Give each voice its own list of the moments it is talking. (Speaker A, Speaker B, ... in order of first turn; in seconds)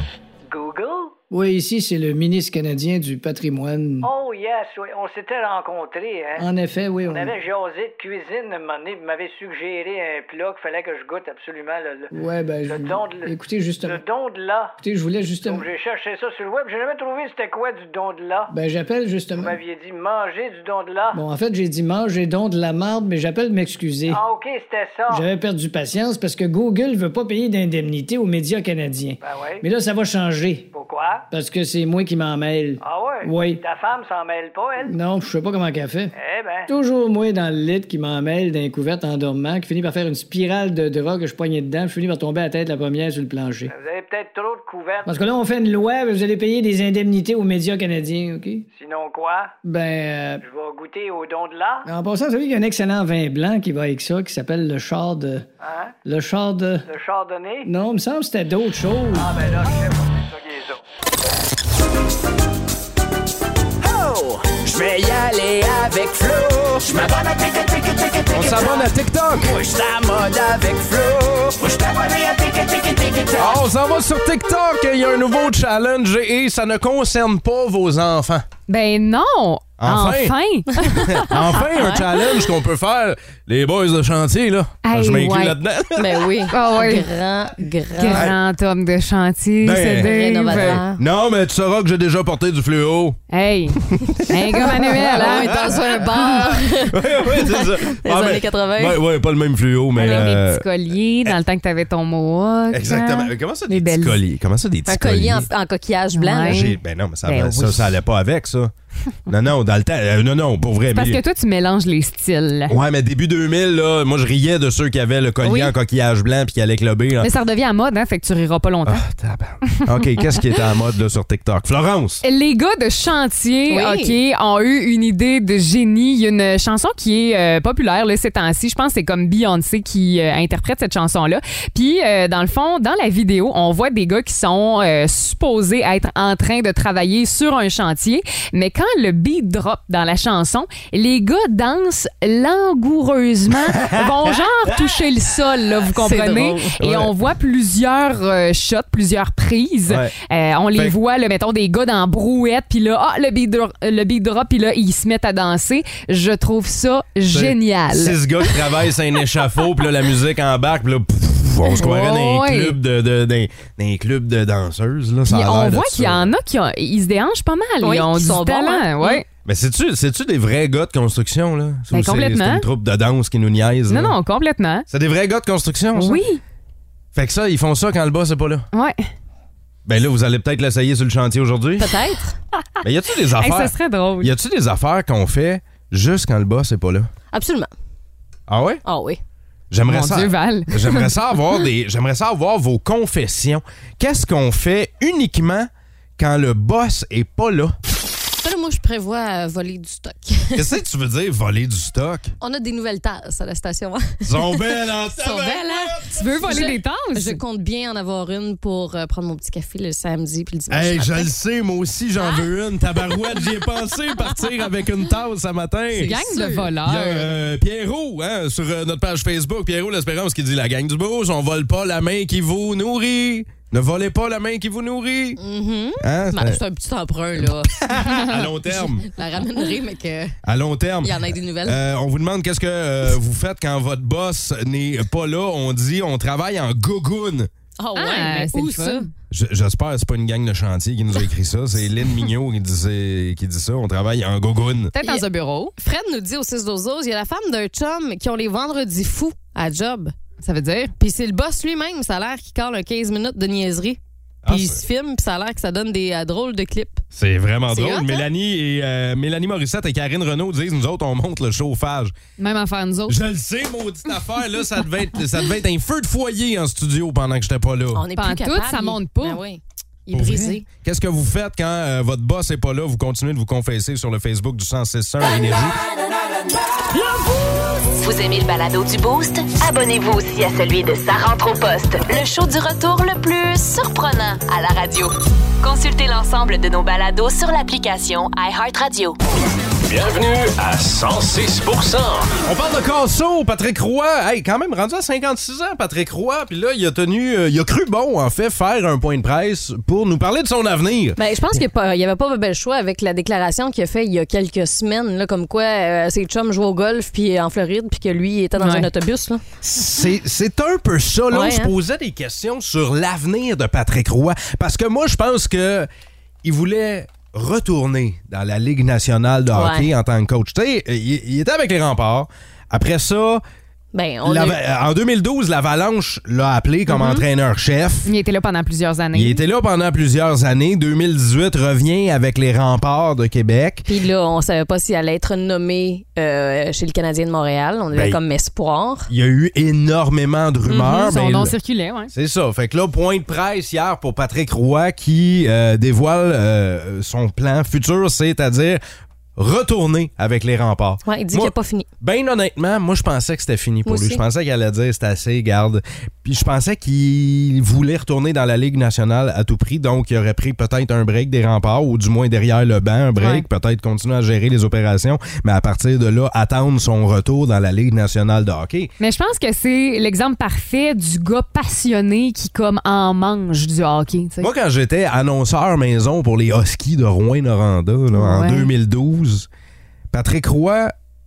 Speaker A: 0.5-1.1, 4.0-6.5, 7.1-12.1, 12.7-14.8, 15.4-18.5, 19.4-21.2, 24.1-25.3, 29.2-29.6, 30.7-31.2, 32.8-35.0, 36.1-36.7, 43.7-45.3, 48.7-49.5, 50.4-51.9, 55.6-55.9, 56.9-57.7, 59.1-60.8
Speaker B: 1.3-4.1, 6.4-7.3, 12.1-14.0, 14.8-15.6, 18.5-19.5, 21.1-24.2, 25.1-30.7, 31.3-33.6, 34.9-36.1, 36.7-43.7, 45.1-48.6, 49.6-50.4, 51.9-55.5, 56.0-56.8, 57.6-59.5
Speaker C: 63.8-73.6
Speaker D: 68.3-69.5, 73.3-78.5, 79.8-86.2, 88.1-88.3, 89.6-93.2, 93.8-100.7, 102.7-105.5, 106.4-108.7, 109.3-111.2, 112.7-117.3, 118.8-122.2, 143.7-144.1, 146.8-147.1, 149.9-150.1, 157.3-166.3, 169.4-174.2, 174.9-176.2, 177.1-178.7, 179.8-182.0, 182.8-187.1, 188.5-188.8, 189.7-197.8, 200.5-202.3, 204.2-206.7, 210.7-225.4, 226.0-226.6, 227.4-229.1, 230.4-237.5, 239.3-244.9, 254.4-254.8, 257.1-262.1, 263.1-268.0, 270.1-275.8, 292.4-301.2, 309.6-315.9, 316.4-323.4, 324.2-328.1, 329.1-333.9, 337.9-338.2, 339.1-341.6, 342.1-348.8, 349.4-368.9, 374.4-379.5, 380.1-380.9
Speaker E: 78.7-81.3, 84.8-85.6, 86.5-87.0, 88.0-90.8, 93.3-95.6, 100.0-104.2, 106.1-106.7, 107.2-108.0, 110.9-112.7, 117.2-119.0, 119.8-120.4, 122.2-158.6, 161.8-162.8, 165.2-169.2, 171.9-172.7, 173.9-174.8, 175.9-176.4, 178.7-179.0, 183.3-184.3, 189.9-191.1, 206.1-207.4, 215.9-217.4, 237.9-239.1, 244.9-245.7, 250.4-250.9, 262.4-263.2, 268.2-269.4, 308.6-308.9, 328.0-329.4, 340.6-342.1, 363.2-363.4, 369.0-374.5, 378.1-378.7
Speaker F: 81.6-82.1, 86.0-88.3, 90.0-91.0, 94.6-99.0, 100.0-100.3, 104.9-106.7, 115.4-115.7, 123.7-124.2, 146.0-146.7, 167.8-169.2, 181.8-182.3, 187.3-187.7, 188.8-189.2, 198.3-200.7, 202.4-211.3, 216.1-216.7, 225.4-227.7, 228.6-230.4, 231.0-231.8, 237.8-239.1, 245.8-250.1, 251.0-257.0, 257.7-258.3, 267.9-270.7, 301.2-309.4, 311.3-311.7, 319.5-319.9, 323.9-324.6, 333.9-339.1, 351.1-351.9, 353.8-354.2
Speaker G: 277.9-289.1
Speaker H: 289.8-292.3